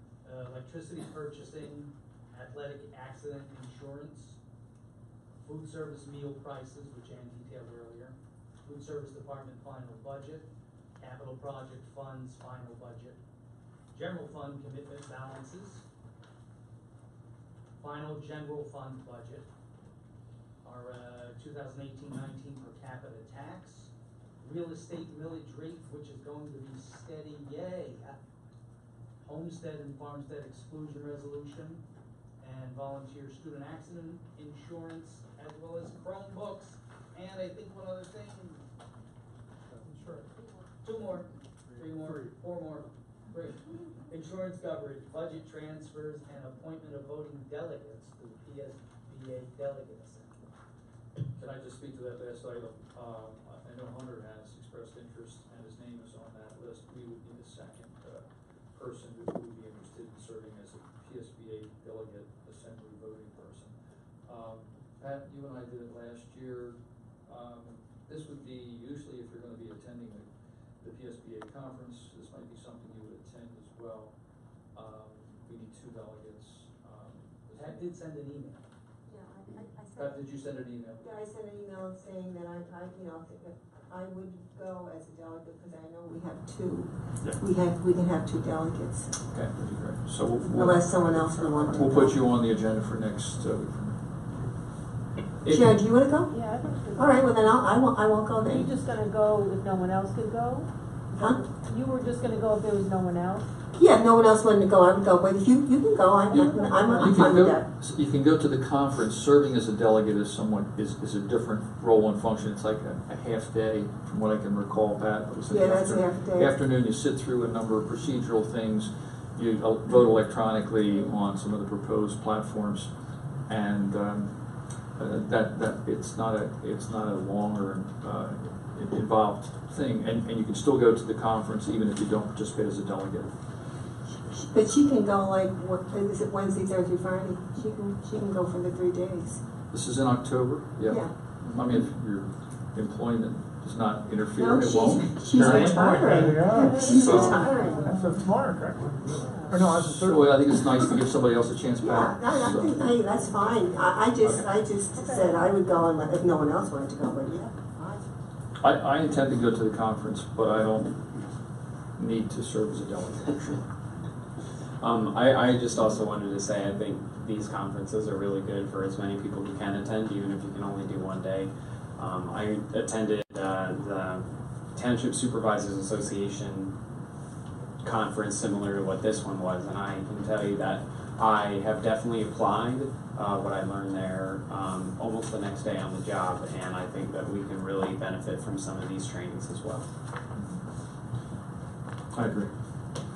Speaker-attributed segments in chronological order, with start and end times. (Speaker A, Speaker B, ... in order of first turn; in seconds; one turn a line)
Speaker A: 0.2-4.4
Speaker A: 5.4-13.2
Speaker A: 13.9-15.8
Speaker A: 17.8-19.5
Speaker A: 20.6-28.2
Speaker A: 29.2-31.8
Speaker A: 32.4-38.6
Speaker A: 39.9-40.2
Speaker A: 40.8-50.4
Speaker B: 51.4-63.7
Speaker B: 64.2-70.3
Speaker B: 70.8-74.1
Speaker B: 74.7-77.9
Speaker A: 77.5-78.6
Speaker C: 79.0-80.3
Speaker B: 80.0-81.1
Speaker C: 81.0-89.1
Speaker B: 89.3-94.0
Speaker C: 90.5-92.2
Speaker B: 95.4-95.7
Speaker C: 95.4-96.3
Speaker D: 96.3-97.7
Speaker C: 96.9-98.7
Speaker D: 98.4-103.5
Speaker C: 103.7-107.7
Speaker B: 106.3-122.9
Speaker C: 115.5-116.5
Speaker B: 123.5-124.3
Speaker B: 125.0-133.3
Speaker C: 134.3-139.4
Speaker B: 139.7-146.3
Speaker C: 140.9-141.1
Speaker C: 144.3-147.9
Speaker E: 145.3-150.5
Speaker D: 146.5-147.9
Speaker B: 146.9-147.4
Speaker D: 149.2-149.6
Speaker B: 149.6-152.9
Speaker C: 151.8-158.0
Speaker B: 154.2-154.5
Speaker D: 154.9-155.4
Speaker B: 158.6-161.0
Speaker B: 161.9-163.6
Speaker F: 164.8-176.7
Speaker F: 177.8-189.9
Speaker B: 192.1-192.5